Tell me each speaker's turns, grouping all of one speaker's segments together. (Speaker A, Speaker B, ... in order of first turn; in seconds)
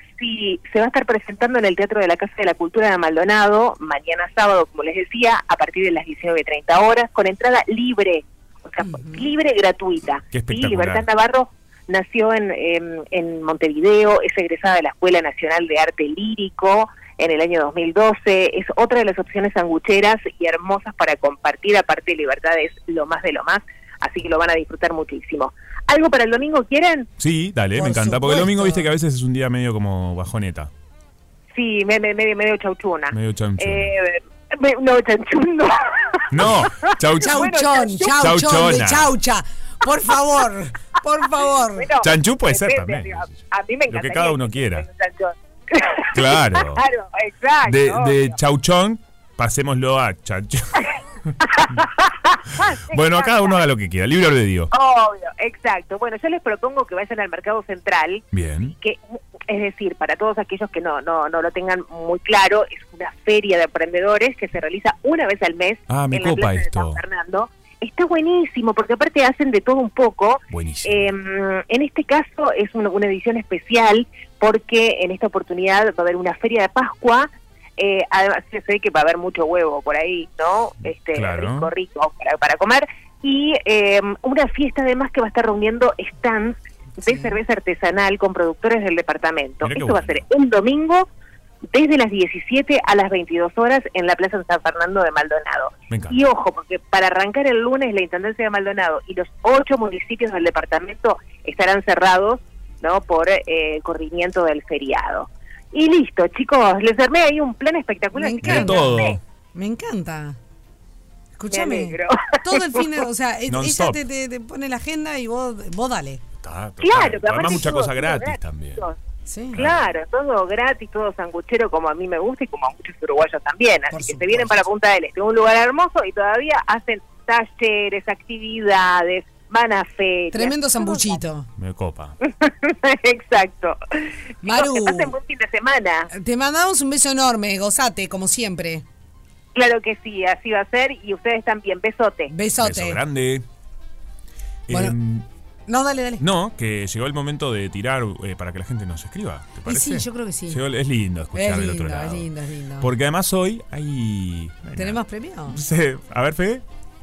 Speaker A: 0.2-27.1, 31.5-38.1, 41.8-48.3, 51.4-53.6, 54.7-91.1, 91.7-109.2, 111.5-112.9, 116.8-119.0, 119.6-131.2, 132.2-136.1, 139.6-142.3
Speaker B: 8.8-9.3, 27.8-28.9, 37.2-41.9, 87.0-87.4, 108.1-110.4, 111.4-116.2, 119.3-119.6, 123.9-124.6, 130.3-131.5, 134.4-135.2, 136.1-138.8, 142.3-143.0, 144.7-145.0, 145.7-146.2, 149.7-150.6, 151.3-152.9, 154.8-155.6
Speaker C: 10.3-11.1, 27.2-30.7, 33.1-33.9, 36.3-39.1, 42.0-43.3, 43.9-44.9, 46.1-46.9, 47.6-51.8, 52.9-54.7, 58.3-58.8, 65.9-67.0, 70.5-71.1, 81.1-81.7, 89.6-90.2, 95.9-96.2, 108.4-109.2, 113.5-114.0, 116.4-118.8, 119.5-119.8, 131.6-132.2, 142.6-143.4, 144.7-145.3, 146.2-156.6